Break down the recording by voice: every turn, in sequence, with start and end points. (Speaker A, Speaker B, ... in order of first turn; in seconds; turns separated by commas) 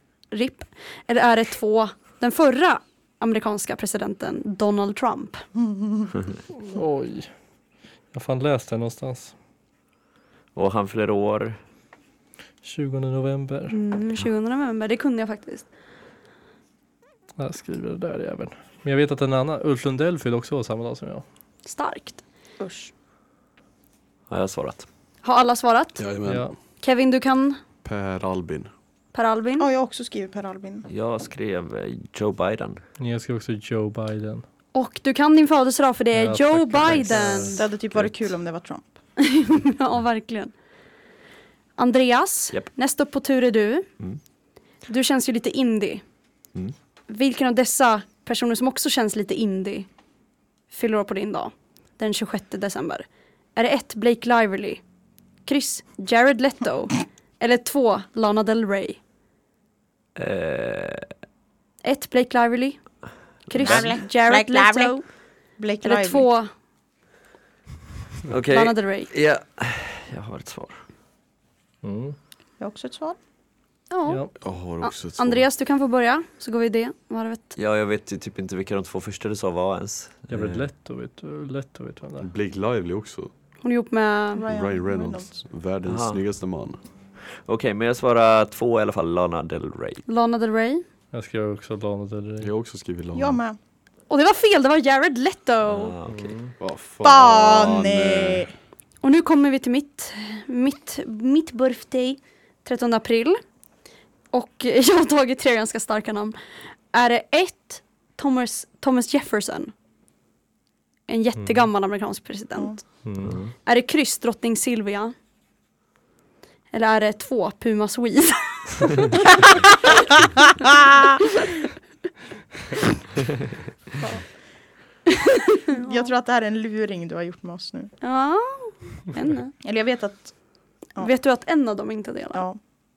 Speaker A: 0.3-5.4, Speaker B: 5.6-6.1, Speaker C: 6.6-7.3, Speaker C: 8.1-9.3, Speaker D: 10.5-11.6, Speaker C: 12.6-13.8, Speaker A: 13.7-15.7, Speaker C: 17.4-21.2, Speaker A: 21.6-22.2, Speaker B: 22.6-22.9, Speaker D: 24.3-24.9, Speaker A: 25.2-26.0, Speaker E: 26.0-26.5, Speaker C: 26.2-26.5, Speaker A: 26.8-27.6, Speaker E: 27.8-28.7, Speaker A: 29.1-29.7, Speaker B: 29.6-30.9, Speaker D: 30.9-32.8, Speaker C: 33.0-34.4, Speaker A: 34.7-37.7, Speaker C: 36.1-37.5, Speaker B: 37.2-38.9, Speaker A: 39.2-40.5, Speaker A: 41.8-43.9, Speaker A: 44.9-46.0, Speaker A: 47.1-49.9, Speaker A: 50.7-53.0, Speaker A: 53.5-54.8, Speaker A: 55.5-59.0, Speaker D: 60.1-61.1, Speaker A: 61.8-62.8, Speaker D: 63.5-63.9, Speaker A: 63.5-65.0, Speaker B: 63.6-65.0, Speaker B: 65.6-66.3, Speaker A: 65.8-66.5, Speaker D: 68.3-70.8, Speaker A: 68.5-69.1, Speaker C: 71.8-72.2, Speaker B: 72.6-73.2, Speaker A: 73.9-74.3, Speaker E: 74.4-75.4, Speaker A: 74.8-77.5, Speaker D: 77.5-80.6, Speaker C: 80.3-82.3, Speaker E: 82.2-83.3, Speaker A: 83.6-84.4, Speaker B: 84.4-85.4, Speaker E: 84.4-86.8, Speaker D: 85.8-86.2, Speaker D: 87.4-90.0, Speaker A: 90.1-90.8, Speaker C: 91.1-92.5, Speaker E: 92.4-93.4, Speaker B: 93.1-93.6, Speaker A: 94.1-96.0, Speaker D: 95.6-96.4, Speaker C: 96.1-96.5, Speaker E: 96.6-98.5, Speaker B: 97.0-98.5, Speaker A: 99.0-103.4, Speaker A: 104.3-106.3, Speaker A: 106.9-109.7, Speaker A: 111.1-112.8, Speaker C: 111.4-111.7, Speaker C: 113.0-113.5, Speaker D: 113.2-113.5, Speaker A: 113.6-115.1, Speaker A: 116.7-120.2, Speaker A: 120.7-121.5, Speaker B: 120.7-121.2, Speaker B: 124.0-124.2, Speaker A: 125.1-126.1, Speaker B: 125.7-127.9, Speaker A: 128.0-129.5, Speaker B: 129.6-130.3, Speaker A: 131.0-132.4, Speaker B: 132.3-132.6